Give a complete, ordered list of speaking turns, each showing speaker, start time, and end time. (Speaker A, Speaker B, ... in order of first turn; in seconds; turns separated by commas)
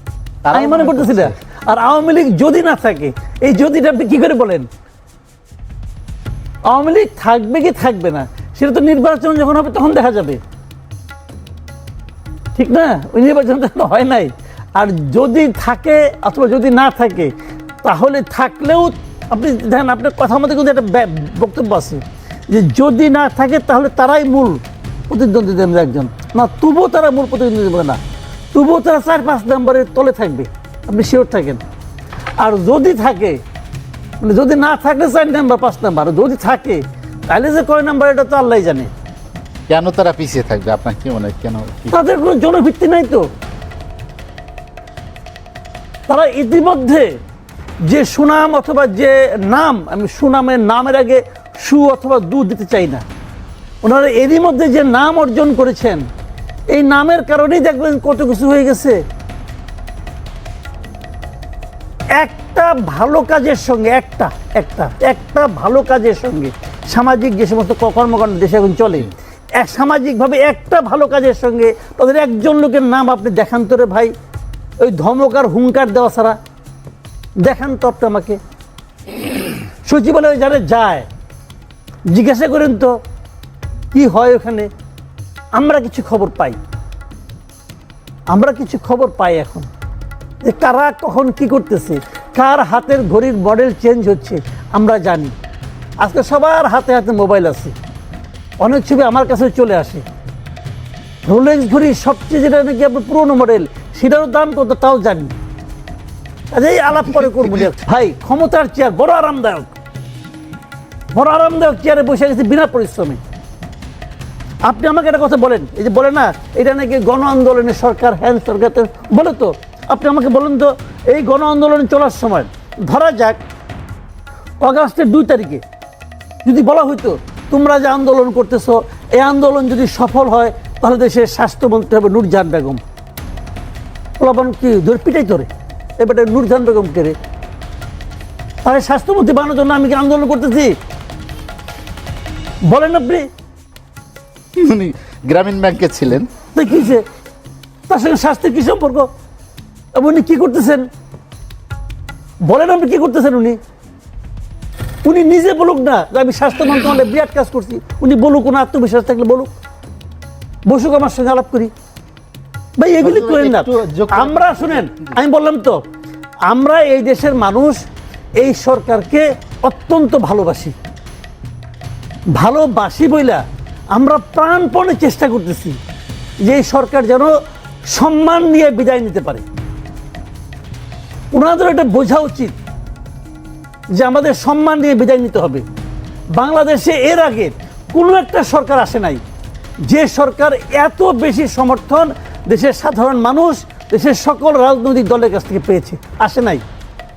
Speaker A: 0.4-1.1, Speaker B: 0.5-4.7, Speaker B: 6.7-10.4, Speaker B: 12.6-28.0, Speaker B: 28.5-31.6, Speaker B: 32.4-33.4, Speaker B: 34.2-38.9, Speaker A: 39.7-41.9, Speaker B: 41.9-43.3, Speaker B: 46.1-47.1, Speaker B: 47.9-53.0, Speaker B: 53.8-56.0, Speaker B: 56.7-59.0, Speaker B: 62.1-74.1, Speaker B: 74.8-76.4, Speaker B: 77.4-78.4, Speaker B: 79.8-81.1, Speaker B: 82.1-82.9, Speaker B: 83.9-84.7, Speaker B: 85.5-86.6, Speaker B: 88.3-89.7, Speaker B: 90.4-95.3, Speaker B: 96.0-97.8, Speaker B: 98.6-100.0, Speaker B: 101.3-105.3, Speaker B: 106.5-109.7, Speaker B: 111.1-113.2, Speaker B: 114.7-123.4, Speaker B: 124.6-125.6, Speaker B: 126.4-132.8, Speaker B: 134.2-137.2, Speaker B: 138.6-140.7, Speaker B: 142.6-143.3, Speaker A: 144.6-146.3, Speaker B: 146.5-147.0, Speaker B: 147.9-149.1, Speaker B: 149.9-150.9, Speaker B: 152.4-153.6, Speaker B: 155.1-159.5, Speaker B: 160.7-161.7, Speaker B: 162.8-165.8, Speaker A: 163.0-165.0, Speaker B: 166.5-167.8, Speaker B: 168.4-170.8, Speaker B: 172.3-175.8, Speaker B: 176.4-177.3, Speaker B: 177.9-179.4, Speaker B: 181.3-182.6, Speaker B: 184.0-185.6, Speaker B: 186.3-189.2, Speaker B: 189.9-196.6